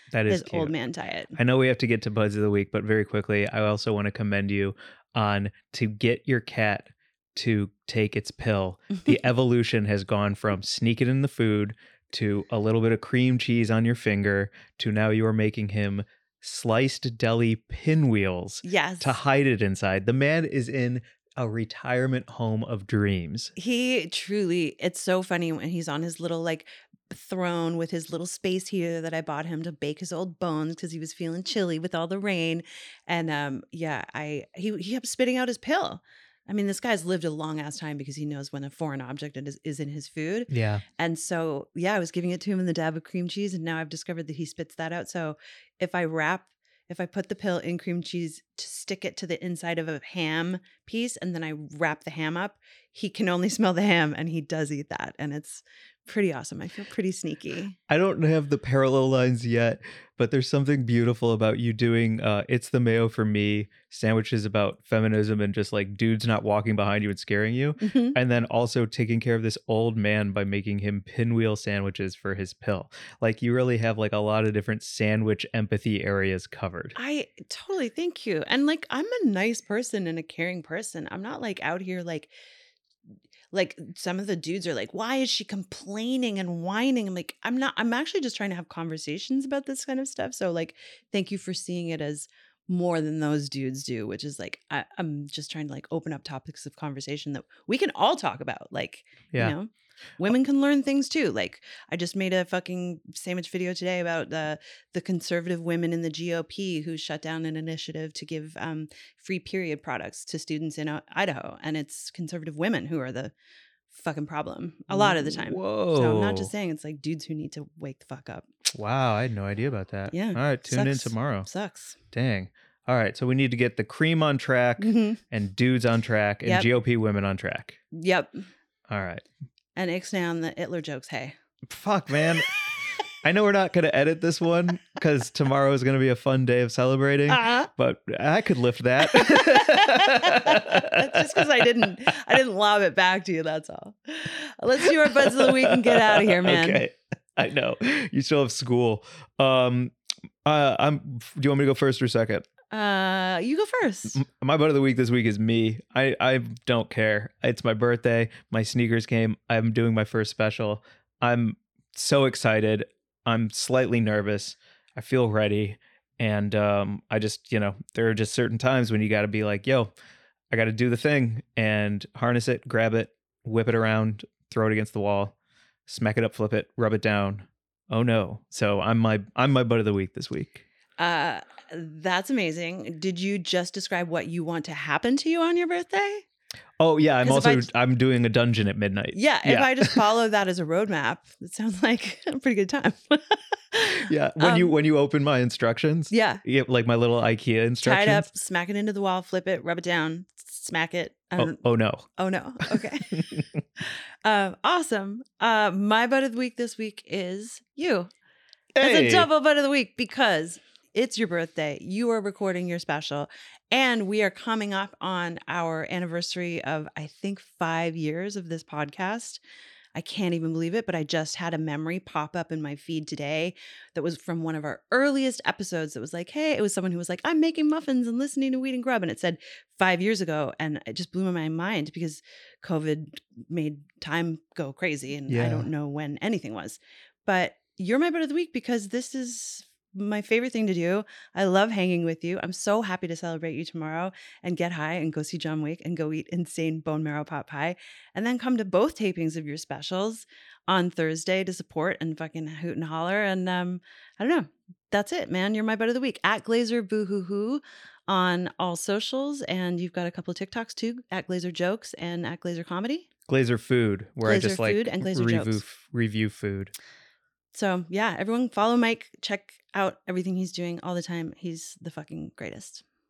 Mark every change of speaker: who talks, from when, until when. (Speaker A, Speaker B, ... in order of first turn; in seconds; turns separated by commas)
Speaker A: 0.1-0.7, Speaker B: 0.3-1.4, Speaker A: 1.3-23.5, Speaker B: 18.6-19.2, Speaker B: 23.6-57.8, Speaker A: 40.5-40.8, Speaker A: 57.9-77.0, Speaker B: 67.8-68.2, Speaker B: 77.0-82.3, Speaker B: 83.5-113.3, Speaker B: 113.9-118.5, Speaker A: 114.9-116.5, Speaker A: 118.7-121.5, Speaker B: 120.1-122.0, Speaker A: 122.1-127.8, Speaker B: 124.8-125.2, Speaker B: 127.9-128.5, Speaker A: 128.9-129.2, Speaker B: 129.8-131.3, Speaker A: 131.7-132.5, Speaker A: 133.2-141.8, Speaker B: 137.3-137.7, Speaker B: 139.0-146.8, Speaker A: 144.8-149.9, Speaker A: 150.4-152.5, Speaker B: 152.7-154.2, Speaker A: 154.1-169.9, Speaker A: 170.5-175.3, Speaker A: 175.9-180.6, Speaker B: 181.0-186.2, Speaker A: 186.8-190.0, Speaker B: 187.2-187.7, Speaker B: 189.1-194.7, Speaker A: 194.1-198.3, Speaker B: 196.1-196.4, Speaker B: 197.8-208.1, Speaker A: 201.3-202.1, Speaker A: 202.7-203.4, Speaker A: 208.7-209.3, Speaker B: 208.8-219.4, Speaker B: 219.9-263.1, Speaker A: 235.3-235.7, Speaker A: 263.3-266.7, Speaker B: 264.2-265.6, Speaker B: 267.5-272.8